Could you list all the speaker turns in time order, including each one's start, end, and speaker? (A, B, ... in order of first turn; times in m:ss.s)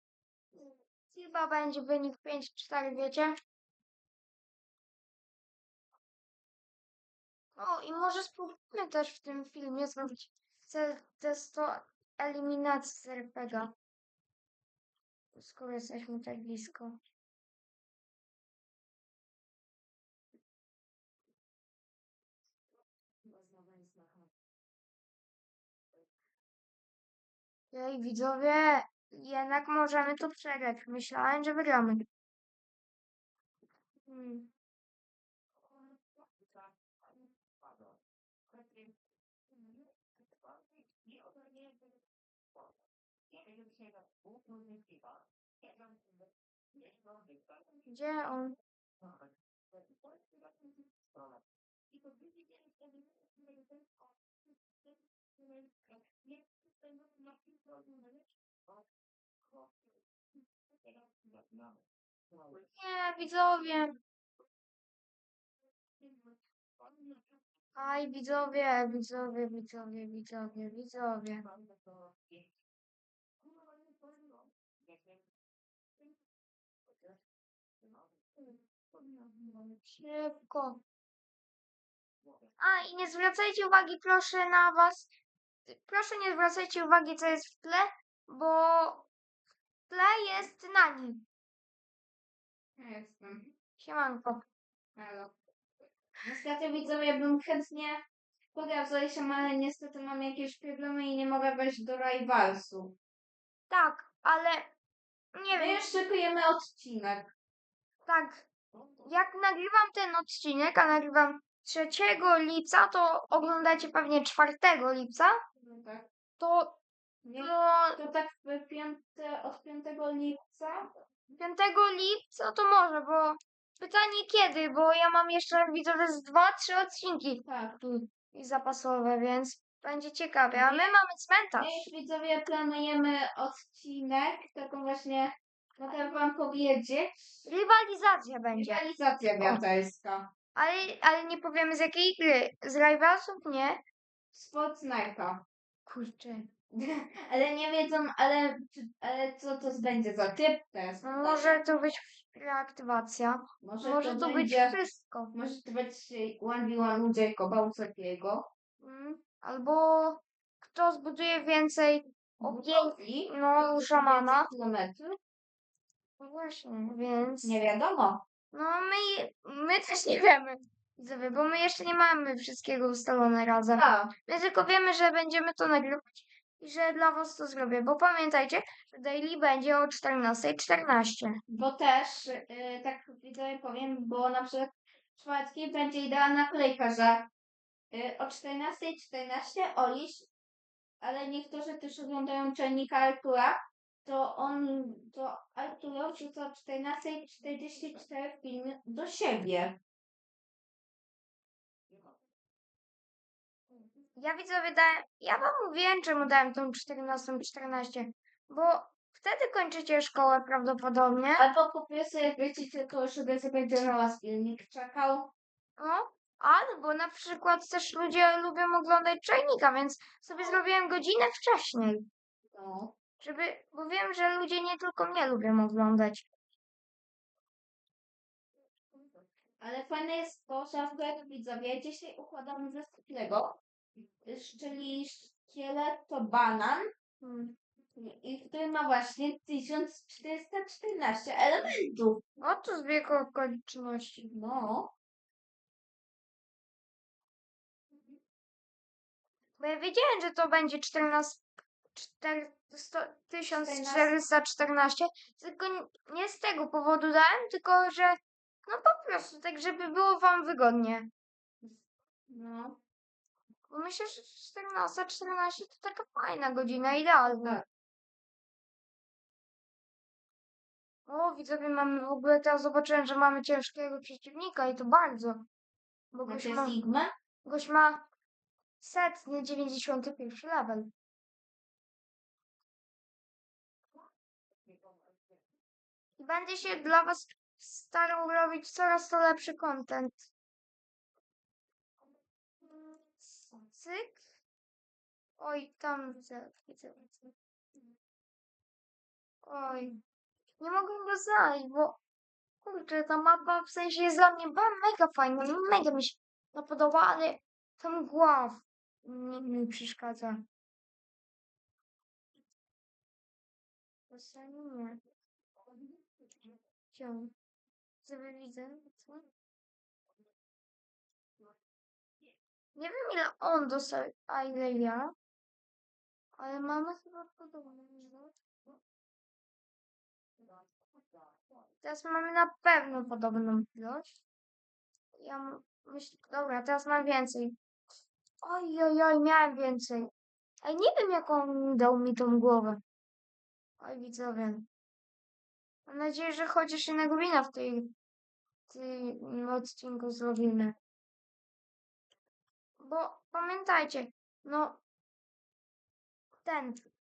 0:00.6-0:03.4 A
0:07.6-0:13.8 A
0:15.3-0:17.0 A
0:27.7-0:32.1 A
0:34.1-0:34.5 A
0:47.9-0:48.6 A
1:02.7-1:04.0 A
1:07.8-1:11.4 A
1:19.2-1:20.8 A
1:22.6-1:25.1 A
1:25.7-1:29.1 A
1:29.9-1:31.2 A
1:32.8-1:33.5 B
1:33.8-1:34.4 A
1:35.0-1:35.3 B
1:36.2-1:38.0 B
1:38.5-1:43.0 B
1:43.7-1:44.7 A
1:45.3-1:45.9 A
1:45.5-1:47.3 B
1:48.1-1:48.5 A
1:49.0-1:55.4 A
1:55.6-1:56.1 B
1:56.4-1:56.8 A
1:57.2-2:00.9 B
1:57.4-1:58.0 A
2:01.4-2:07.4 A
2:07.4-2:08.1 B
2:08.3-2:11.9 A
2:10.5-2:10.9 B
2:11.6-2:17.2 B
2:17.5-2:18.8 A
2:18.6-2:20.3 B
2:20.6-2:23.8 A
2:24.3-2:25.4 B
2:25.9-2:26.5 A
2:26.7-2:31.6 B
2:31.0-2:35.3 A
2:33.6-2:34.8 B
2:35.3-2:38.5 B
2:38.8-2:44.5 A
2:42.4-2:45.2 B
2:46.2-2:47.6 A
2:47.4-2:48.2 B
2:48.5-3:01.4 A
2:53.8-2:54.1 B
3:01.5-3:07.3 B
3:07.9-3:10.3 B
3:11.0-3:19.8 B
3:24.2-3:31.5 A
3:31.4-3:35.3 B
3:35.8-3:42.1 A
3:42.5-3:42.9 B
3:43.2-3:46.3 A
3:49.6-3:53.6 B
3:54.2-3:56.9 B
3:57.2-3:57.6 A
3:58.0-4:02.2 B
4:02.4-4:04.3 A
4:04.2-4:04.9 B
4:09.6-4:11.4 A
4:12.0-4:21.1 A
4:13.5-4:14.1 B
4:22.3-4:22.8 B
4:23.7-4:27.6 A
4:27.3-4:27.6 B
4:31.1-4:35.5 A
4:36.1-4:36.8 A
4:36.3-4:37.1 B
4:37.4-4:38.0 A
4:38.8-4:40.9 A
4:46.2-4:50.3 A
4:52.6-4:54.2 A
4:55.4-4:57.3 A
4:59.4-5:00.0 A
5:00.6-5:02.0 A
5:02.6-5:10.4 A
5:14.1-5:15.0 A
5:16.9-5:17.3 A
5:18.0-5:19.3 A
5:22.8-5:25.1 A
5:26.4-5:28.3 A
5:31.8-5:34.2 A
5:35.2-5:37.6 A
5:38.4-5:40.1 A
5:40.6-5:42.8 A
5:43.8-5:44.7 A
5:45.9-5:47.9 A
5:48.7-5:50.8 A
5:52.8-5:54.8 A
5:56.4-5:56.8 A